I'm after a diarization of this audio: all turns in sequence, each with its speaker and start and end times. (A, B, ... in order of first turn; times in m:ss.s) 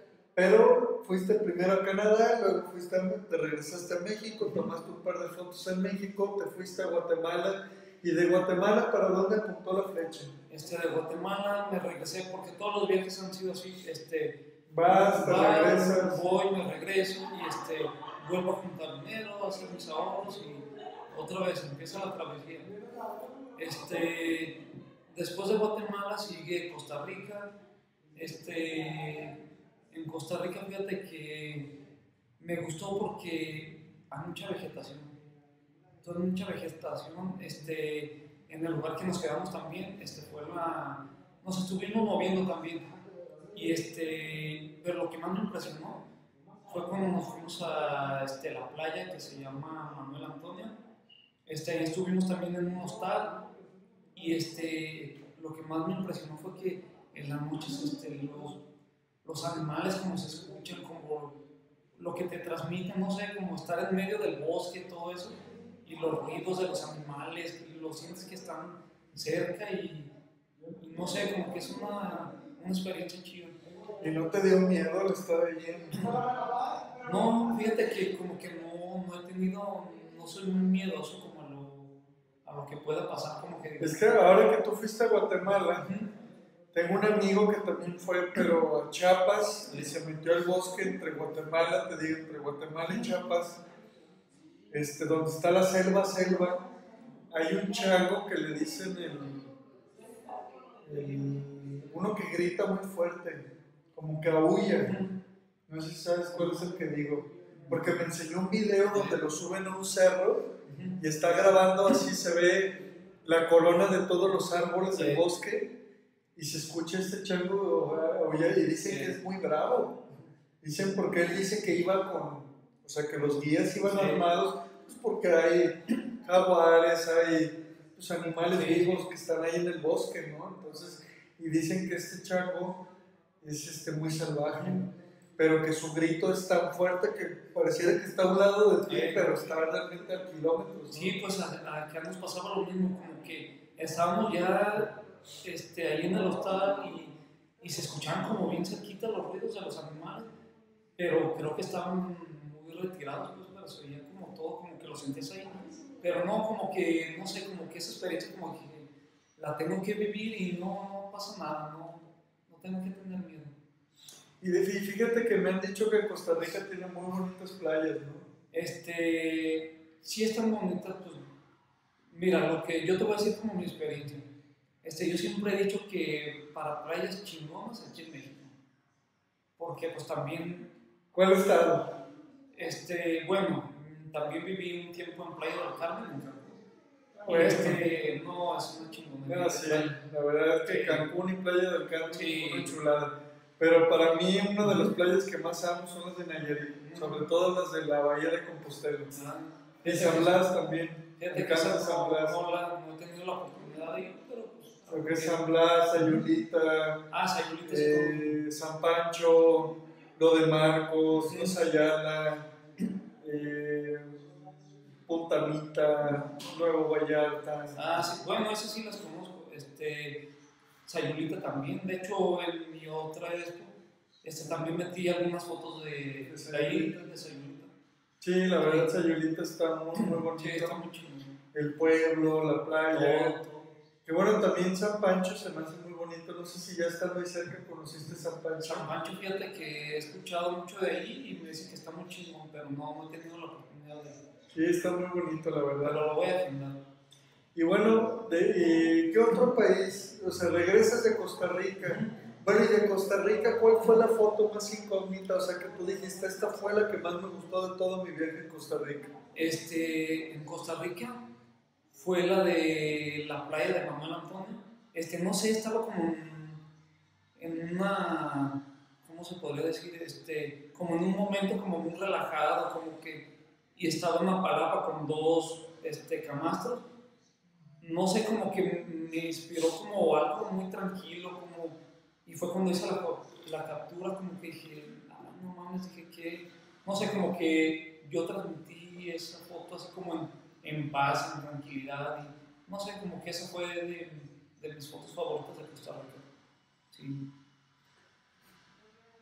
0:00.4-0:10.3 A
0:10.5-0:22.7 B
0:14.7-0:16.2 A
0:23.6-0:27.5 B
0:28.1-0:31.8 B
0:32.4-0:35.2 B
0:36.0-0:42.9 B
0:43.5-0:46.0 B
0:46.7-0:50.8 B
0:51.4-0:53.5 B
0:54.1-0:58.6 B
0:59.2-1:01.4 B
1:02.0-1:10.1 B
1:10.8-1:13.6 B
1:14.0-1:16.3 A
1:17.0-1:21.9 B
1:22.4-1:24.0 B
1:23.8-1:25.9 A
1:25.8-1:26.1 B
1:26.7-1:33.6 A
1:34.7-1:36.7 A
1:37.3-1:39.5 A
1:40.8-1:45.0 A
1:44.8-1:45.2 B
1:45.7-1:55.7 A
1:50.7-1:51.0 B
1:54.9-1:55.2 B
1:56.4-2:00.0 A
1:58.8-1:59.2 B
2:00.6-2:12.8 A
2:03.9-2:04.3 B
2:08.5-2:09.0 B
2:13.4-2:21.2 A
2:18.9-2:19.4 B
2:20.9-2:30.3 B
2:31.0-2:43.5 B
2:44.4-2:48.3 A
2:48.5-2:51.3 B
2:52.1-2:54.2 B
2:54.8-2:58.6 B
2:59.6-3:00.7 B
3:01.1-3:02.0 A
3:02.5-3:06.6 B
3:07.2-3:08.0 A
3:07.3-3:10.0 B
3:09.2-3:19.1 A
3:10.6-3:11.1 B
3:12.1-3:12.7 B
3:14.6-3:14.9 B
3:16.8-3:17.3 B
3:19.1-3:20.4 B
3:19.8-3:22.4 A
3:21.2-3:25.4 B
3:24.9-3:27.1 A
3:27.1-3:28.4 B
3:27.7-3:32.5 A
3:33.2-3:34.2 A
3:35.1-3:37.8 A
3:37.7-3:40.2 B
3:40.8-3:47.7 B
3:46.3-3:47.0 A
3:48.2-3:50.8 A
3:48.6-3:48.9 B
3:49.9-3:51.3 B
3:51.5-3:53.4 A
3:52.9-3:53.7 B
3:54.0-3:58.9 A
3:58.6-4:04.2 B
4:04.5-4:06.0 A
4:05.8-4:06.8 B
4:07.5-4:19.1 A
4:11.8-4:12.1 B
4:19.3-4:21.2 B
4:21.9-4:26.6 B
4:27.4-4:36.8 B
4:37.8-4:56.2 B
4:56.9-4:57.3 B